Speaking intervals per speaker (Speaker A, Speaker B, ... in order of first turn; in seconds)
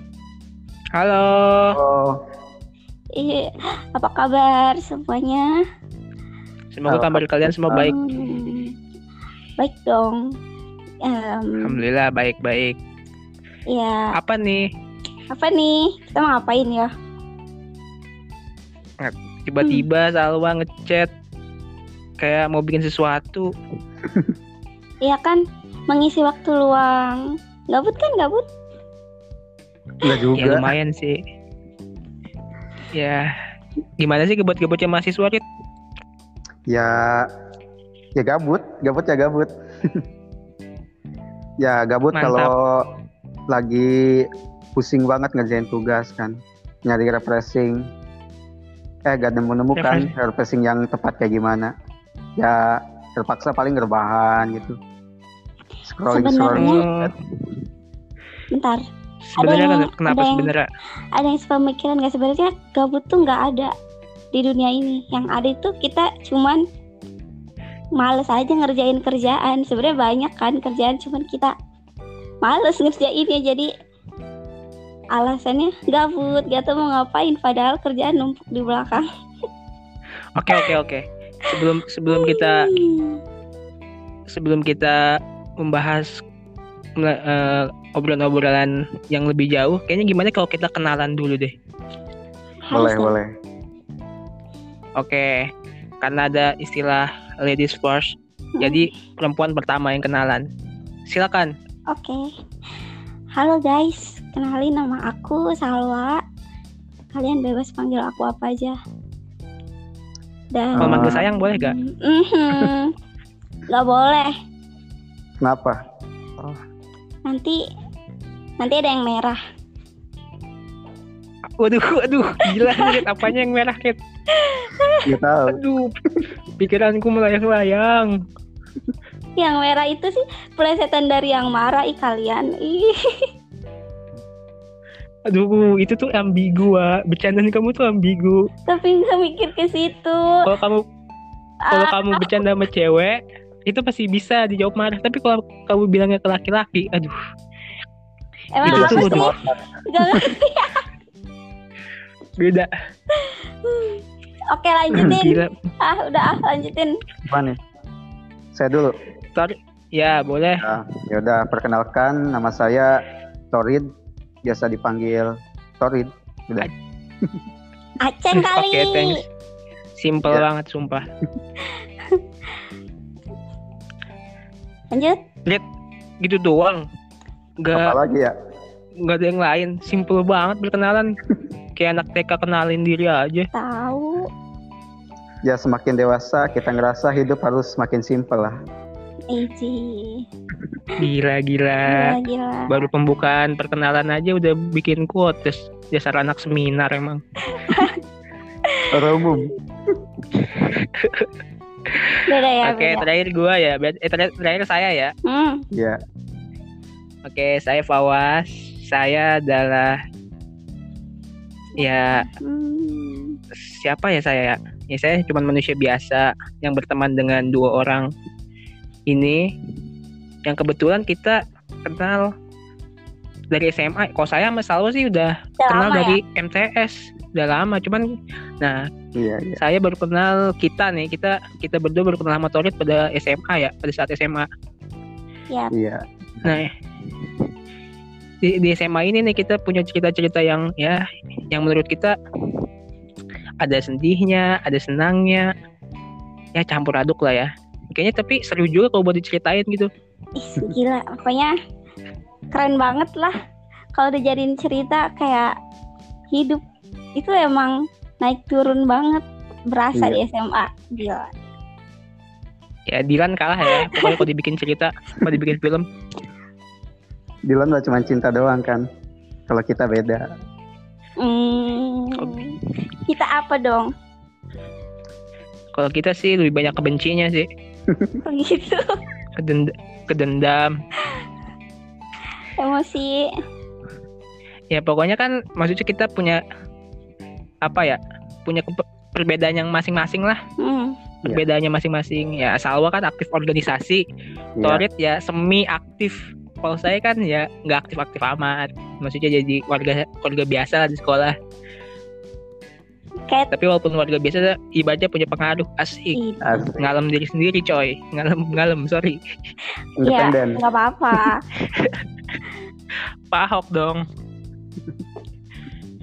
Speaker A: 0.9-1.8, 6.7-7.9, 11.6-12.8, 14.1-14.7, 19.0-21.1, 22.2-23.5, 30.4-31.2, 32.9-33.3, 34.0-35.4, 42.1-42.5, 49.8-50.1, 56.6-57.1, 59.3-60.7, 80.4-82.7, 84.3-86.2, 87.0-91.5, 95.0-95.5, 96.0-100.5, 101.1-101.5, 110.8-111.8, 121.6-124.0, 125.5-126.0, 126.6-128.2, 135.3-138.5, 140.5-140.8, 141.7-147.2, 148.7-149.3, 152.4-152.7, 155.0-155.5, 159.4-160.7, 168.3-169.2, 170.0-171.0, 176.2-176.8, 177.6-178.0, 179.0-181.2, 181.8-183.5, 191.0-192.2, 192.7-197.2, 200.4-201.3, 201.9-205.1, 207.3-210.0, 211.8-212.3, 213.5-218.1, 219.1-219.5, 220.4-222.3, 223.5-228.1, 228.6-228.9, 229.6-234.5, 236.4-236.7, 238.4-242.2, 243.6-245.5, 246.6-249.9, 262.9-265.9, 275.7-277.5, 279.4-280.8, 284.7-286.4, 287.6-290.4, 291.2-294.1, 294.6-301.4, 303.5-306.2, 306.8-309.2, 311.6-312.0, 313.3-314.0
Speaker B: 1.7-2.2, 6.9-7.9, 30.0-30.7, 36.7-37.3, 38.2-40.0, 41.6-42.9, 43.5-47.8, 49.1-51.7, 52.4-54.8, 55.9-57.1, 92.7-93.3, 110.8-111.2, 115.4-115.8, 125.0-125.6, 148.7-150.3, 157.3-157.6, 158.5-159.0, 160.6-162.9, 163.5-163.9, 164.4-166.7, 177.7-178.3, 185.4-188.6, 198.9-199.5, 205.7-206.0, 229.2-229.6, 235.7-236.5, 259.9-260.2, 267.5-268.9, 269.5-270.2, 277.9-278.2, 294.6-294.8, 306.4-306.9, 310.0-310.6
Speaker C: 3.2-5.6, 7.8-8.8, 9.6-10.2, 11.0-11.8, 13.7-14.1, 15.3-16.9, 25.0-28.4, 56.1-56.8, 58.5-58.8, 59.4-60.5, 61.2-63.7, 64.3-66.6, 68.0-71.5, 72.5-73.7, 75.1-79.1, 81.5-83.2, 92.7-93.1, 98.6-98.9, 101.9-102.3, 103.3-106.2, 107.1-108.8, 110.5-112.9, 113.7-114.3, 117.3-117.6, 118.6-119.4, 122.5-123.1, 124.3-125.0, 129.4-133.3, 138.7-140.5, 141.7-142.4, 148.6-149.3, 149.8-150.8, 153.1-156.9, 168.0-169.2, 174.9-175.2, 183.5-184.3, 189.3-190.3, 191.9-192.9, 197.5-198.0, 202.3-203.1, 205.2-205.7, 211.8-213.4, 225.6-226.2, 250.4-251.5, 252.5-253.3, 254.0-255.5, 256.3-256.6, 257.2-261.3, 263.6-264.2, 271.2-273.9, 278.2-278.9, 282.6-283.3, 290.6-291.0, 306.1-306.6, 310.1-311.4